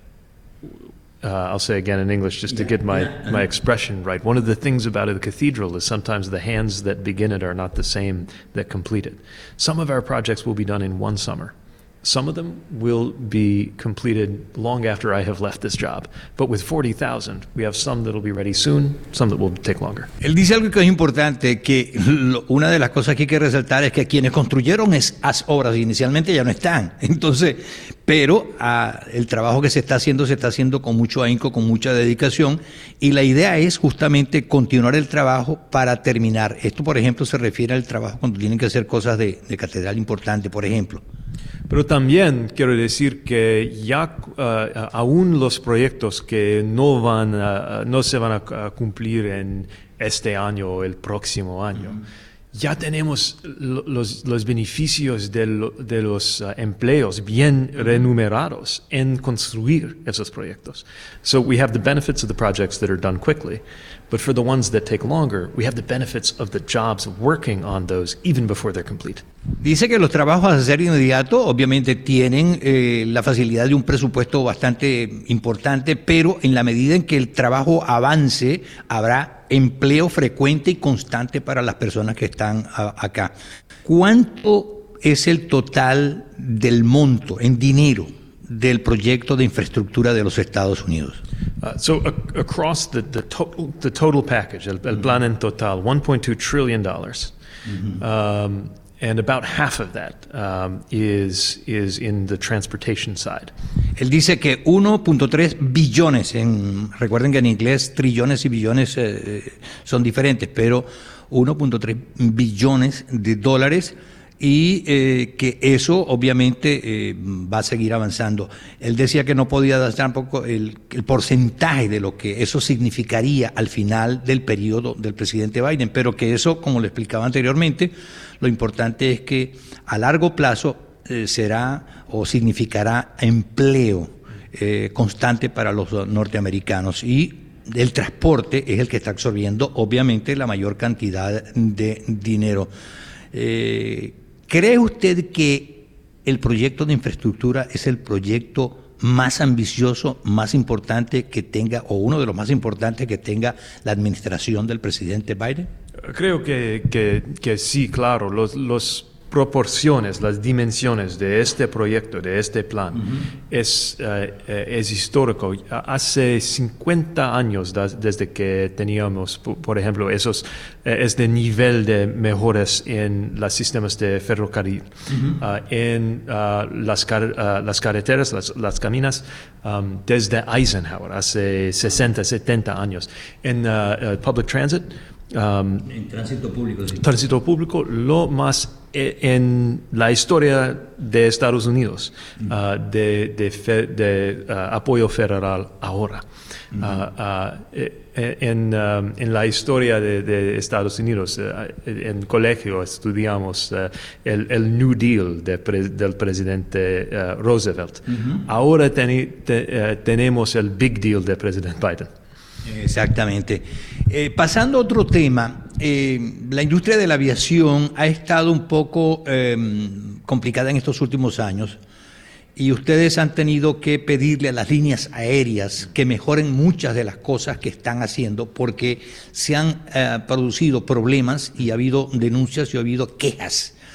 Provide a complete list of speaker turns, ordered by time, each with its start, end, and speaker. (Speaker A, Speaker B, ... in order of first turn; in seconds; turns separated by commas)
Speaker A: 1.2-20.1, Speaker B: 20.2-41.0, Speaker A: 41.7-52.0, Speaker A: 52.5-69.2, Speaker B: 69.6-83.3, Speaker B: 83.8-91.2, Speaker A: 91.6-97.3, Speaker A: 97.9-103.5, Speaker B: 104.0-142.7, Speaker B: 143.3-155.7, Speaker A: 156.1-185.9, Speaker B: 185.9-187.0, Speaker A: 186.9-196.2, Speaker A: 196.8-212.1, Speaker B: 212.7-221.8, Speaker B: 222.6-233.8